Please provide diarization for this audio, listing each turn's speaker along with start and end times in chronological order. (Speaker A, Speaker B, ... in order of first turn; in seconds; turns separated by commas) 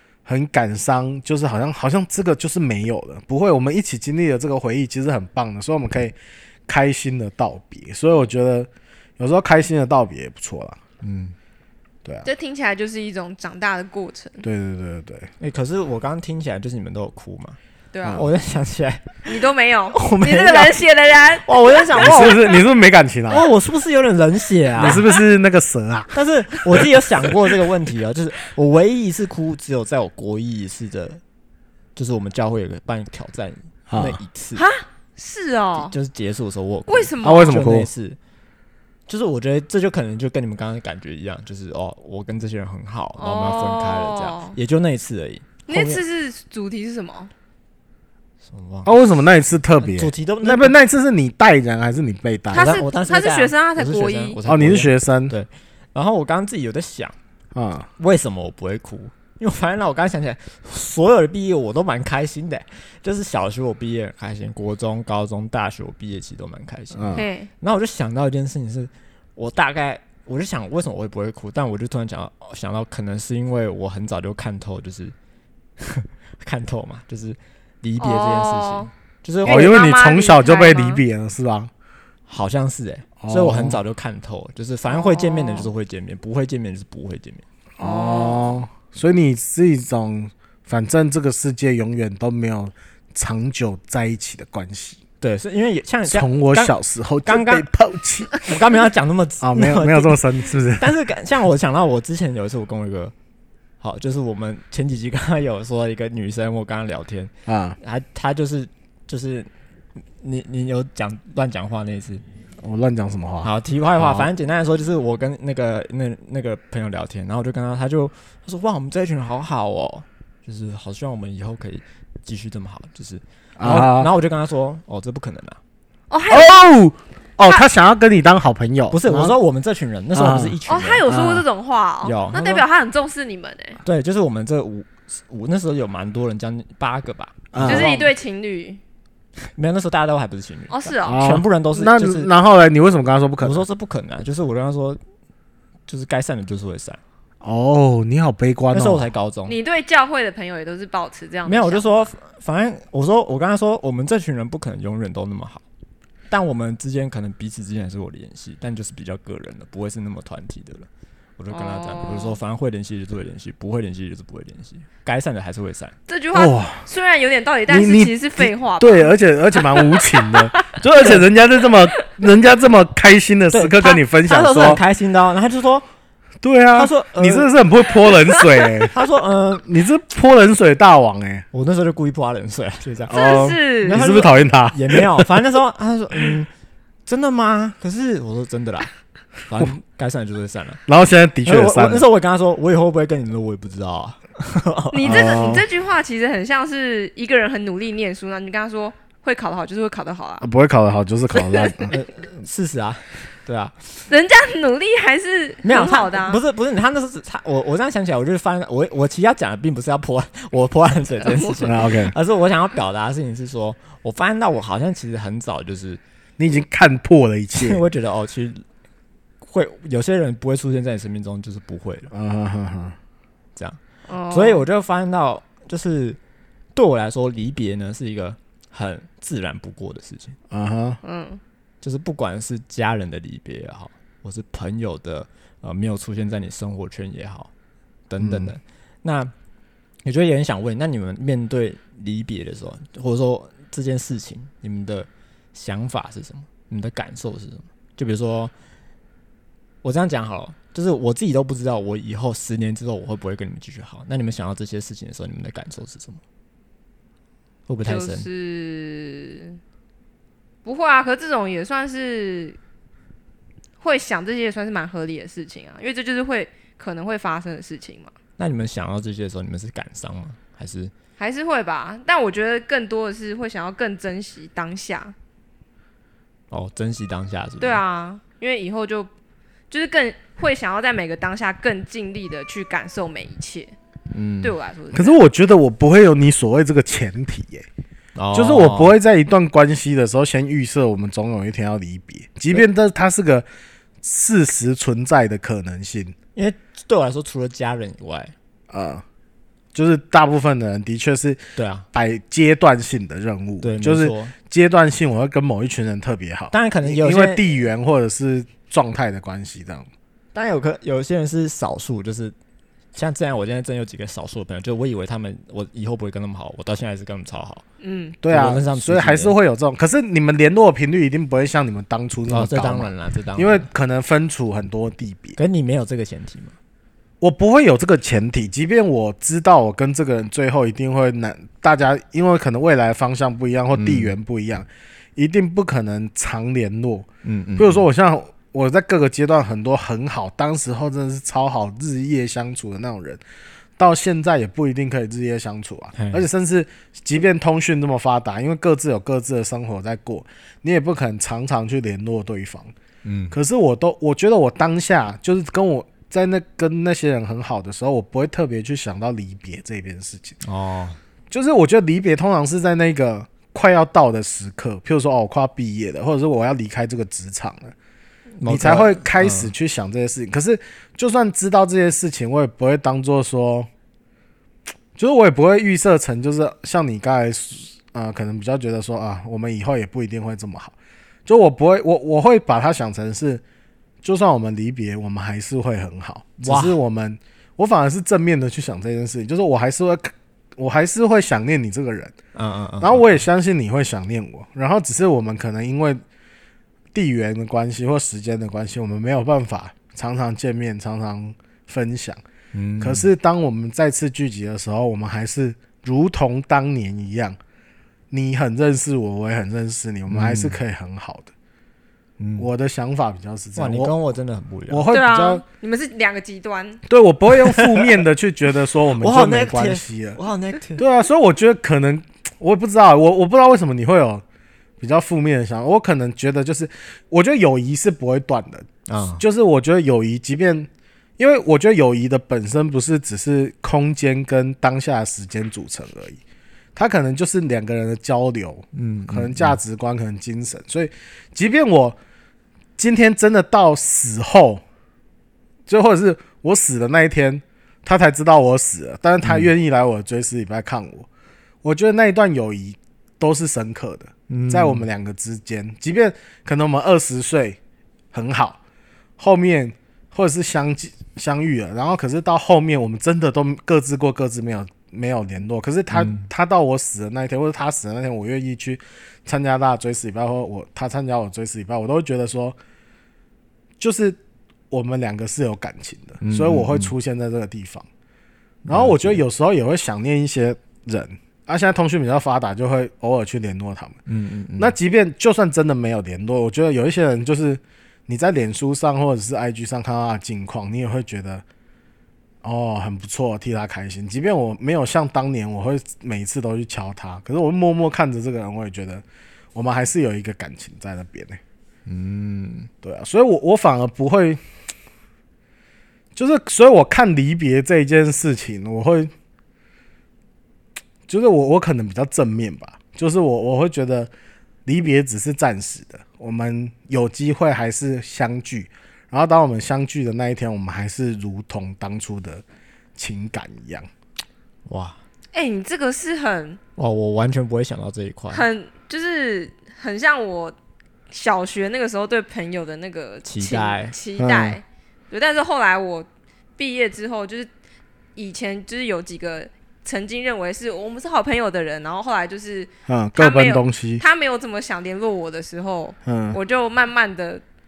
Speaker A: 0.3-6.2, Speaker A: 6.7-10.8, Speaker B: 11.0-11.3, Speaker C: 12.2-14.4, Speaker A: 14.4-15.3, Speaker B: 15.4-17.6, Speaker C: 17.9-18.3, Speaker B: 18.1-20.8, Speaker C: 19.3-22.6, Speaker B: 21.4-22.4, Speaker A: 22.0-23.5, Speaker B: 23.3-25.0, Speaker A: 24.8-27.3, Speaker C: 24.8-25.1, Speaker B: 26.1-31.2, Speaker B: 32.0-34.6, Speaker A: 33.9-34.2, Speaker C: 34.6-36.0, Speaker B: 35.8-38.2, Speaker C: 36.9-37.6, Speaker A: 37.2-37.9, Speaker B: 39.1-46.0, Speaker C: 43.2-44.6, Speaker C: 45.7-47.3, Speaker B: 48.5-48.9, Speaker A: 48.9-52.8, Speaker B: 49.8-50.8, Speaker C: 52.5-54.4, Speaker B: 52.5-57.2, Speaker A: 54.5-55.3, Speaker A: 57.5-57.9, Speaker B: 58.0-75.1, Speaker A: 66.9-67.2, Speaker C: 67.1-67.5, Speaker B: 75.8-79.7, Speaker C: 78.0-78.9, Speaker C: 79.4-81.0, Speaker A: 79.5-81.7, Speaker B: 82.3-87.4, Speaker A: 83.2-83.8, Speaker C: 84.9-85.7, Speaker A: 87.8-95.0, Speaker C: 87.8-88.6, Speaker B: 95.2-97.7, Speaker A: 96.1-98.3, Speaker B: 98.4-103.1, Speaker A: 99.4-100.9, Speaker B: 103.8-109.5, Speaker A: 107.5-107.8, Speaker B: 110.2-112.2, Speaker A: 112.6-114.3, Speaker B: 113.4-125.6, Speaker A: 123.6-124.1, Speaker C: 126.1-126.6, Speaker A: 126.3-129.3, Speaker B: 128.9-131.0, Speaker A: 130.1-131.5, Speaker C: 130.7-133.8, Speaker B: 132.0-132.6, Speaker B: 133.8-138.1, Speaker A: 137.5-137.9, Speaker C: 137.7-138.8, Speaker B: 139.5-142.3, Speaker C: 140.7-141.3, Speaker A: 141.1-143.6, Speaker B: 143.4-145.0, Speaker B: 145.9-147.0, Speaker A: 147.4-149.1, Speaker B: 148.7-149.6, Speaker C: 149.5-152.1, Speaker B: 151.5-155.6, Speaker B: 156.3-165.9, Speaker C: 161.5-162.4, Speaker C: 166.1-170.8, Speaker A: 166.3-166.8, Speaker A: 167.7-174.8, Speaker B: 173.5-175.9, Speaker A: 176.4-178.9, Speaker B: 176.8-177.5, Speaker B: 178.9-179.7, Speaker A: 179.7-181.5, Speaker B: 181.5-186.5, Speaker A: 183.1-185.3, Speaker C: 183.1-184.0, Speaker B: 187.1-188.9, Speaker B: 189.5-190.8, Speaker A: 190.9-192.1, Speaker B: 191.4-195.3, Speaker C: 194.9-200.5, Speaker A: 195.0-195.7, Speaker A: 200.4-201.9, Speaker C: 201.3-201.7, Speaker B: 201.9-203.9, Speaker C: 204.1-206.4, Speaker B: 205.6-216.0, Speaker C: 211.2-211.7, Speaker A: 211.7-212.1, Speaker A: 216.4-217.8, Speaker B: 217.5-218.6, Speaker B: 219.5-222.1, Speaker A: 222.1-223.0, Speaker C: 224.1-224.7, Speaker B: 224.3-226.2, Speaker B: 226.8-230.4, Speaker A: 230.5-231.0, Speaker C: 231.0-231.4, Speaker B: 231.8-237.5, Speaker B: 238.1-239.3, Speaker A: 238.2-238.5, Speaker B: 240.1-248.5, Speaker B: 249.8-256.2, Speaker B: 257.7-258.3, Speaker C: 257.8-259.6, Speaker C: 260.6-262.6, Speaker C: 263.8-268.1, Speaker B: 268.4-270.9, Speaker C: 271.2-275.1, Speaker B: 276.5-277.8, Speaker C: 277.6-279.1, Speaker C: 279.7-283.7, Speaker B: 284.1-284.5, Speaker C: 284.4-285.2, Speaker A: 284.9-287.7, Speaker B: 288.2-289.0, Speaker A: 288.3-293.5, Speaker A: 294.0-296.1, Speaker B: 296.4-298.3, Speaker A: 298.7-299.0, Speaker A: 299.7-301.4, Speaker B: 301.6-301.9, Speaker A: 301.9-309.9, Speaker B: 303.6-304.4, Speaker B: 306.5-307.6, Speaker B: 310.3-312.3, Speaker B: 312.9-317.6, Speaker C: 317.8-318.2, Speaker A: 318.2-325.4, Speaker B: 318.3-319.4, Speaker B: 322.3-323.7, Speaker B: 325.4-326.6, Speaker A: 327.2-343.2, Speaker B: 333.8-334.1, Speaker B: 337.2-337.9, Speaker A: 343.8-352.7, Speaker B: 345.9-346.2, Speaker B: 353.1-353.4, Speaker A: 353.3-360.4, Speaker B: 360.4-361.0, Speaker A: 361.3-367.7, Speaker B: 368.4-369.5, Speaker A: 368.5-373.7, Speaker A: 375.0-380.8, Speaker A: 381.3-383.4, Speaker A: 384.0-392.1, Speaker B: 386.4-386.8, Speaker B: 392.4-393.2, Speaker A: 392.8-396.0, Speaker A: 396.9-402.2, Speaker B: 402.5-403.1, Speaker A: 402.8-407.4, Speaker A: 408.1-411.3, Speaker B: 410.1-410.6, Speaker B: 412.2-412.5, Speaker A: 412.4-413.9, Speaker B: 413.6-414.9, Speaker A: 414.7-415.4, Speaker C: 414.9-416.8, Speaker A: 416.9-420.2, Speaker B: 417.4-417.9, Speaker B: 419.0-420.8, Speaker A: 420.8-424.2, Speaker A: 424.8-428.7, Speaker B: 428.9-429.2, Speaker A: 429.2-436.2, Speaker A: 436.8-442.0, Speaker B: 438.7-439.6, Speaker A: 442.8-444.6, Speaker A: 445.7-451.1, Speaker B: 449.2-449.5, Speaker A: 451.6-457.6, Speaker B: 454.3-454.9, Speaker A: 458.1-458.6, Speaker A: 459.2-472.6, Speaker B: 465.9-466.3, Speaker A: 473.8-474.2, Speaker A: 474.7-477.9, Speaker B: 476.2-476.9, Speaker B: 478.6-479.2, Speaker A: 478.7-484.0, Speaker B: 484.1-484.8, Speaker A: 484.6-491.4, Speaker A: 492.4-501.4, Speaker B: 501.9-502.7, Speaker A: 502.8-504.4, Speaker A: 506.1-509.1, Speaker A: 511.1-514.1, Speaker A: 514.7-522.4, Speaker A: 523.0-523.9, Speaker B: 524.7-525.0, Speaker C: 525.3-526.6, Speaker B: 526.8-528.5, Speaker C: 528.3-530.5, Speaker C: 531.1-536.1, Speaker B: 533.2-534.0, Speaker A: 534.2-534.6, Speaker C: 536.6-537.5, Speaker C: 538.2-547.4, Speaker A: 542.9-544.0, Speaker A: 546.1-546.4